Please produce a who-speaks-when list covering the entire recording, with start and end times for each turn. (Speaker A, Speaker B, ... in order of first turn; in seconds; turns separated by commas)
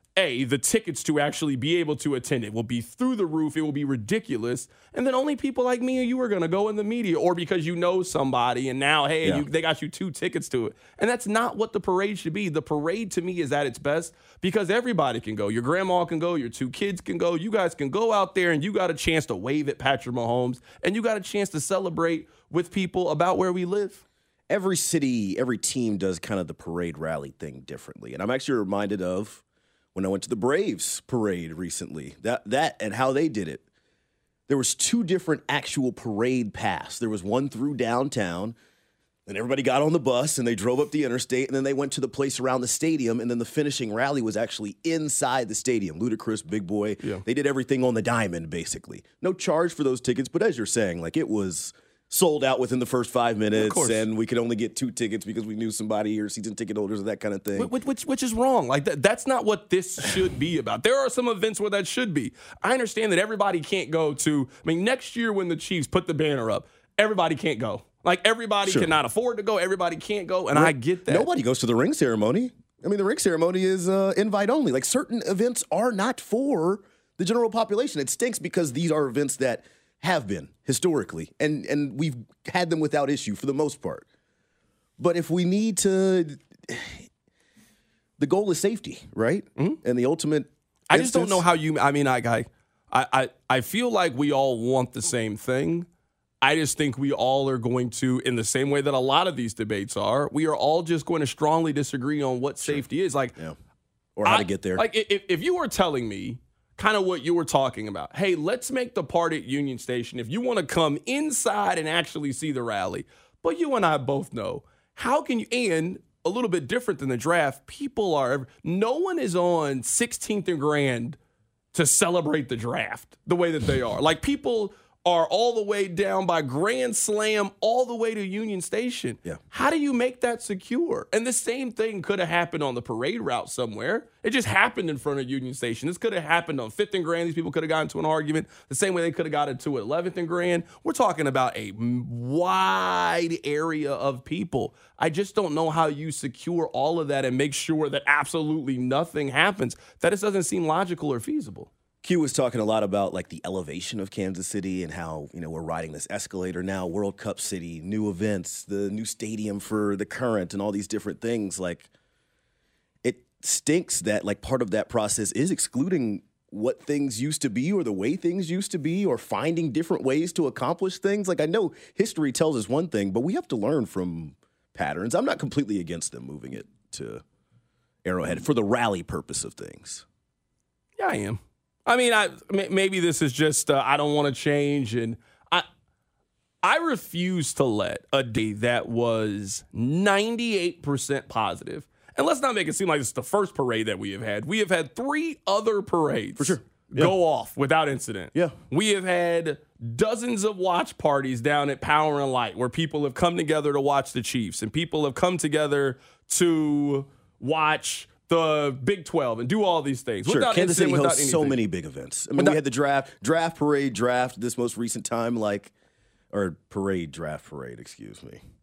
Speaker A: 0.2-24.0, Speaker B: 24.5-29.4, Speaker B: 29.9-33.6, Speaker B: 34.5-38.5, Speaker B: 39.3-57.7, Speaker A: 53.5-54.0, Speaker A: 57.5-71.3, Speaker B: 68.7-68.9, Speaker B: 70.5-84.0, Speaker B: 85.0-87.0, Speaker B: 88.2-91.4, Speaker A: 90.9-95.9, Speaker A: 96.4-103.3, Speaker B: 104.2-104.8, Speaker A: 104.2-121.2, Speaker A: 121.7-151.7, Speaker B: 152.0-161.9, Speaker B: 163.0-177.2, Speaker B: 178.0-180.0, Speaker A: 181.0-185.7, Speaker A: 186.6-211.6, Speaker B: 196.4-197.1, Speaker B: 210.2-215.7, Speaker B: 216.3-218.4